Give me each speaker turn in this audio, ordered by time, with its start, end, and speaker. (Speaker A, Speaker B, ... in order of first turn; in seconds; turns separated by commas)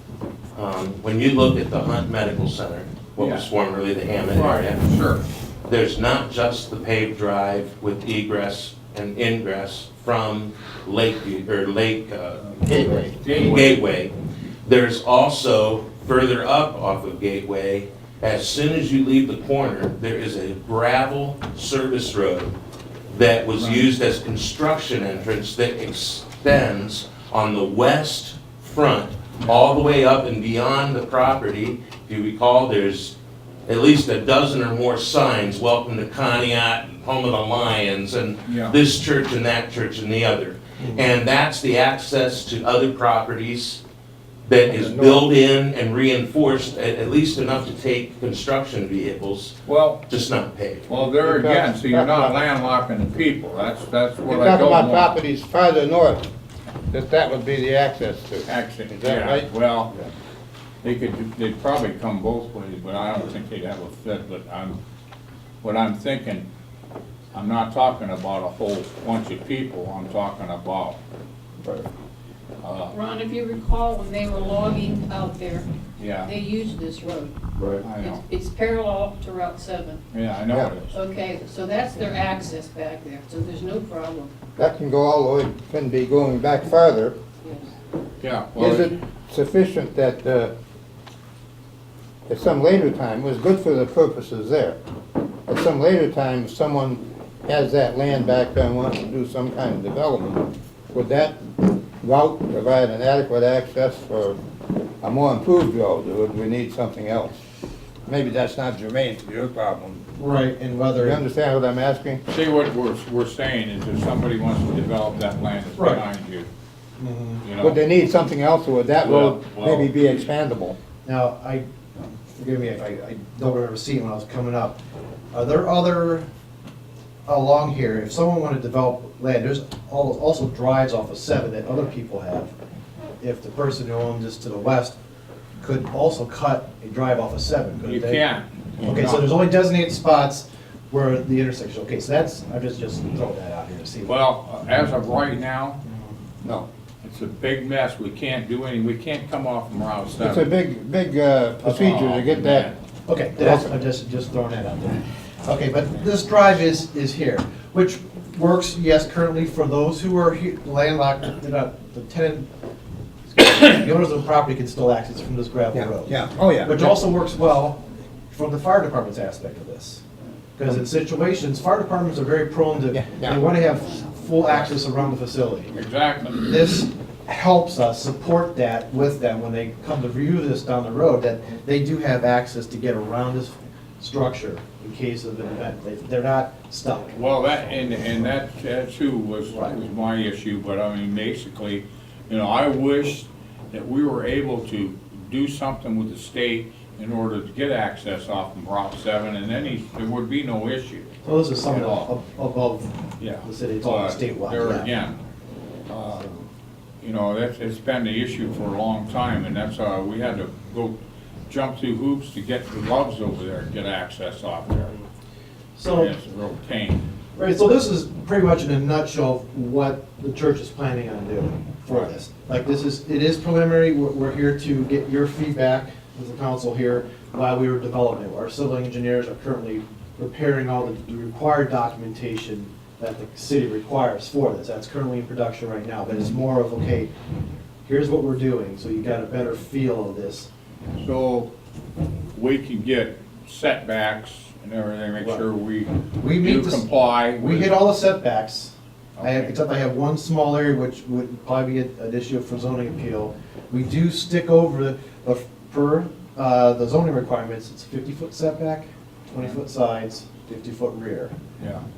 Speaker A: 0.5-4.8, Speaker B: 3.2-3.5, Speaker B: 4.3-5.2, Speaker A: 5.6-12.9, Speaker B: 12.4-13.8, Speaker C: 12.7-13.1, Speaker A: 13.4-14.1, Speaker A: 14.6-22.5, Speaker A: 23.1-33.1, Speaker B: 23.6-23.8, Speaker A: 33.6-43.8, Speaker B: 38.5-38.8, Speaker D: 40.8-41.0, Speaker A: 44.5-49.5, Speaker C: 44.7-45.3, Speaker B: 49.7-50.0, Speaker A: 50.1-50.9, Speaker B: 50.9-55.2, Speaker C: 51.1-52.3, Speaker C: 54.3-56.2, Speaker C: 56.9-59.5, Speaker B: 58.5-59.9, Speaker B: 60.8-64.8, Speaker B: 65.6-66.5, Speaker B: 67.3-71.0, Speaker B: 72.6-72.9, Speaker E: 72.9-75.7, Speaker B: 76.0-76.3, Speaker E: 76.2-77.3, Speaker D: 77.6-77.8, Speaker B: 77.8-78.2, Speaker E: 78.0-80.0, Speaker B: 80.1-80.9, Speaker E: 80.9-84.3, Speaker C: 84.6-87.1, Speaker B: 88.2-88.9, Speaker C: 88.6-90.5, Speaker C: 92.3-94.8, Speaker C: 95.5-104.4, Speaker C: 105.0-107.3, Speaker C: 108.0-110.0, Speaker D: 110.2-111.2, Speaker C: 111.0-112.2, Speaker B: 112.3-116.5, Speaker D: 115.8-116.0, Speaker D: 117.0-117.4, Speaker B: 117.4-117.8, Speaker C: 117.6-120.8, Speaker B: 119.0-120.0, Speaker D: 121.0-124.8, Speaker D: 125.3-126.3, Speaker D: 127.3-132.5, Speaker D: 133.2-135.0, Speaker D: 135.6-138.2, Speaker B: 137.8-139.2, Speaker D: 138.8-144.1, Speaker B: 144.0-145.8, Speaker B: 147.0-150.5, Speaker C: 150.2-152.7, Speaker B: 151.6-152.7, Speaker D: 153.1-162.5, Speaker C: 153.4-153.7, Speaker D: 163.3-170.0, Speaker C: 165.7-166.9, Speaker D: 170.6-175.7, Speaker C: 172.9-173.4, Speaker B: 175.7-176.5, Speaker D: 176.4-187.7, Speaker B: 187.1-201.1, Speaker D: 189.5-189.8, Speaker D: 201.2-204.9, Speaker B: 201.7-202.1, Speaker B: 203.2-205.2, Speaker C: 205.9-206.3, Speaker D: 206.2-206.4, Speaker B: 207.0-210.9, Speaker B: 211.5-214.9, Speaker D: 215.8-216.1, Speaker B: 215.8-217.0, Speaker D: 217.3-237.1, Speaker D: 237.8-240.5, Speaker B: 241.0-241.5, Speaker B: 242.3-247.8, Speaker D: 245.2-245.4, Speaker D: 246.2-261.3, Speaker B: 249.2-249.5